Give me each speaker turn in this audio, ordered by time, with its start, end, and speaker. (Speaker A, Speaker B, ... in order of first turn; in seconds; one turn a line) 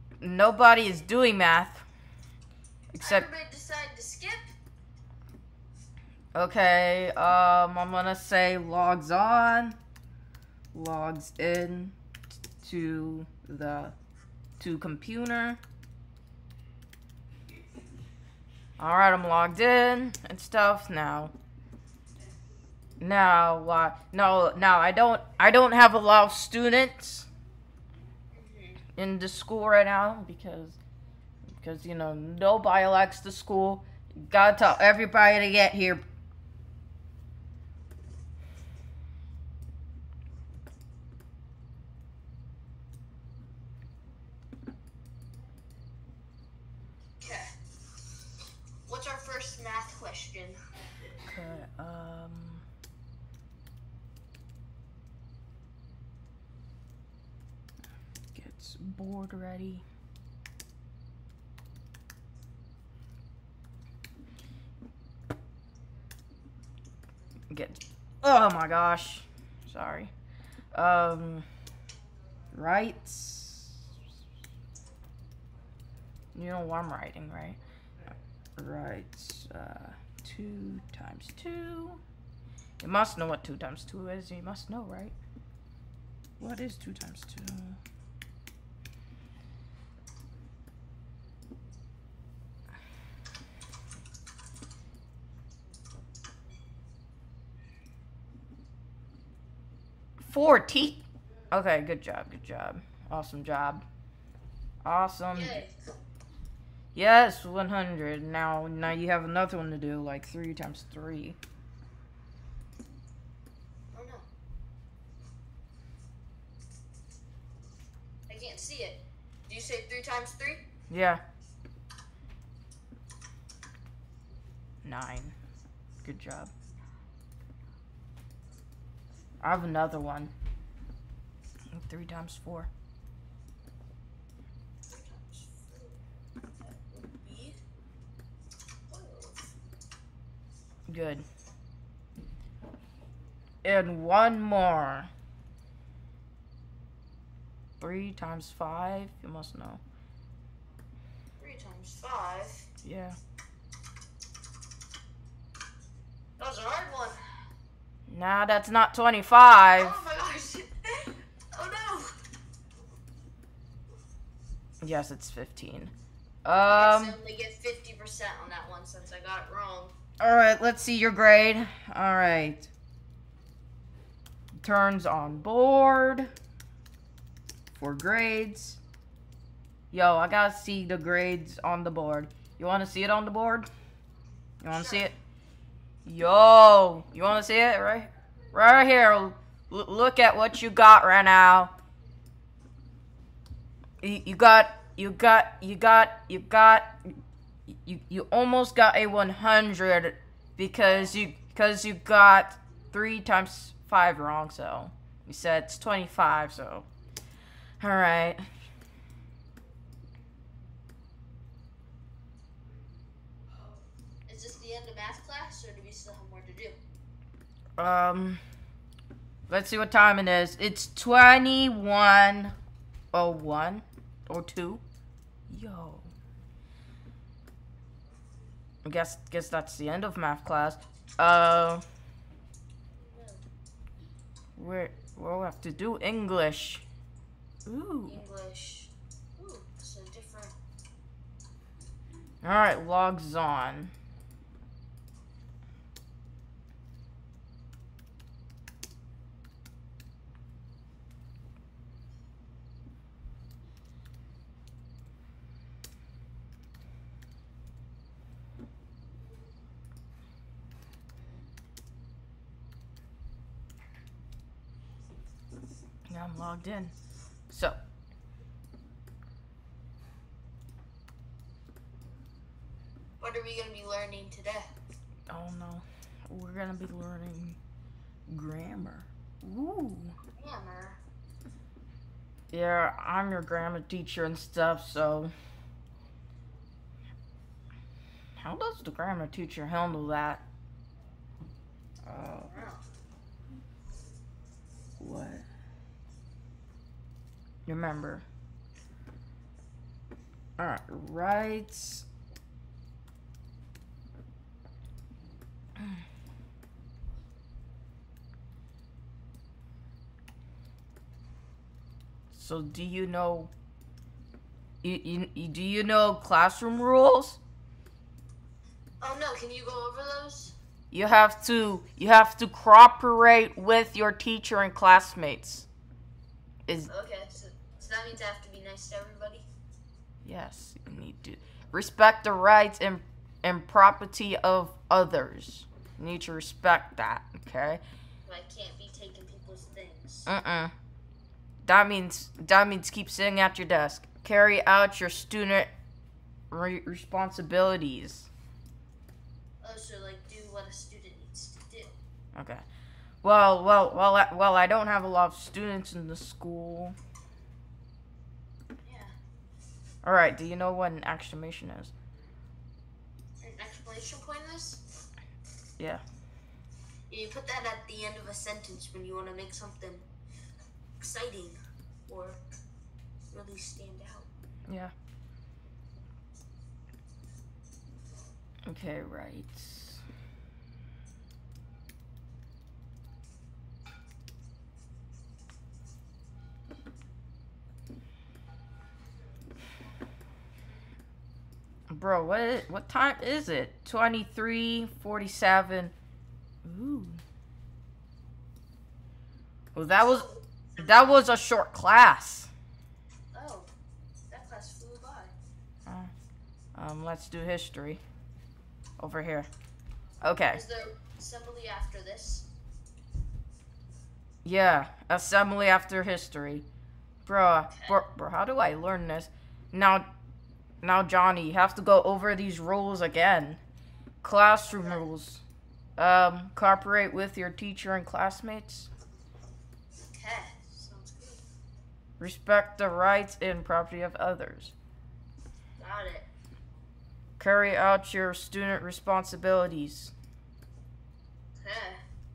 Speaker A: 0.2-1.8
Speaker A: 2.9-3.3
Speaker B: 3.0-4.5
Speaker A: 6.3-9.8
Speaker A: 10.7-11.9
Speaker A: 12.6-13.9
Speaker A: 14.6-15.6
Speaker A: 18.8-21.3
Speaker A: 23.0-27.3
Speaker B: 28.3-28.8
Speaker A: 28.9-30.8
Speaker A: 31.5-36.0
Speaker B: 47.2-47.5
Speaker B: 48.9-50.6
Speaker A: 51.2-52.6
Speaker A: 58.3-59.8
Speaker A: 67.5-70.1
Speaker A: 70.7-71.5
Speaker A: 72.5-73.8
Speaker A: 76.3-82.0
Speaker A: 82.8-85.1
Speaker A: 86.4-87.8
Speaker A: 100.2-103.8
Speaker A: 104.8-105.6
Speaker B: 105.3-105.8
Speaker A: 106.9-111.4
Speaker B: 113.9-114.2
Speaker B: 118.3-120.6
Speaker A: 120.9-121.2
Speaker A: 124.8-125.3
Speaker A: 126.0-126.5
Speaker A: 129.4-130.3
Speaker A: 131.7-132.7
Speaker B: 134.9-137.6
Speaker B: 138.9-139.5
Speaker A: 140.9-141.2
Speaker A: 143.6-145.1
Speaker A: 147.8-149.8
Speaker B: 151.4-152.7
Speaker A: 152.8-153.2
Speaker B: 156.4-157.2
Speaker A: 158.1-160.0
Speaker B: 159.8-162.1
Speaker A: 164.8-165.9
Speaker A: 166.4-167.2
Speaker B: 166.7-169.9
Speaker A: 170.2-172.7
Speaker A: 174.6-176.3
Speaker A: 177.7-178.8
Speaker A: 179.9-183.7
Speaker A: 184.6-185.1
Speaker B: 184.7-185.1
Speaker A: 186.0-191.7
Speaker A: 194.0-197.2
Speaker A: 197.7-206.9
Speaker A: 207.8-208.4
Speaker B: 214.3-216.8
Speaker A: 217.8-218.4
Speaker A: 219.5-222.6
Speaker A: 223.1-224.8
Speaker A: 225.5-226.1
Speaker A: 228.8-231.8
Speaker B: 233.0-233.4
Speaker A: 234.6-236.8
Speaker A: 237.7-238.2
Speaker B: 238.1-240.5
Speaker A: 242.4-243.9
Speaker A: 266.1-266.9
Speaker A: 267.5-267.8
Speaker B: 273.2-274.7
Speaker A: 275.3-277.6
Speaker A: 278.3-280.2
Speaker B: 280.3-281.0
Speaker A: 282.5-285.3
Speaker A: 288.4-290.4
Speaker A: 292.1-292.5
Speaker B: 292.5-292.8
Speaker A: 295.0-295.4
Speaker A: 297.6-298.2
Speaker A: 300.6-302.1
Speaker A: 312.3-313.5
Speaker A: 314.8-317.4
Speaker B: 319.0-320.6
Speaker A: 320.9-325.7
Speaker B: 326.9-329.4
Speaker A: 330.2-337.8
Speaker B: 338.2-340.3
Speaker A: 340.2-340.7
Speaker A: 341.6-345.7
Speaker A: 346.5-348.3
Speaker B: 349.6-352.0
Speaker A: 352.3-352.6
Speaker A: 353.2-356.9
Speaker B: 358.8-359.1
Speaker A: 360.0-361.9
Speaker B: 363.4-364.8
Speaker B: 367.1-370.1
Speaker B: 371.0-372.4
Speaker B: 373.3-374.3
Speaker A: 374.7-374.9
Speaker A: 378.6-380.0
Speaker A: 391.9-395.9
Speaker A: 396.6-397.2
Speaker A: 399.7-402.5
Speaker B: 399.9-401.2
Speaker B: 403.3-403.7
Speaker B: 404.3-405.3
Speaker A: 405.9-406.1
Speaker A: 406.8-408.0
Speaker A: 409.0-409.5
Speaker A: 410.2-410.6
Speaker B: 410.5-412.5
Speaker A: 414.4-416.6
Speaker A: 417.2-420.1
Speaker B: 417.7-418.0
Speaker A: 420.8-423.6
Speaker A: 424.2-425.4
Speaker B: 424.7-425.0
Speaker A: 426.0-428.9
Speaker B: 430.0-431.4
Speaker A: 432.2-434.7
Speaker B: 435.8-436.3
Speaker A: 437.4-440.1
Speaker B: 441.6-442.0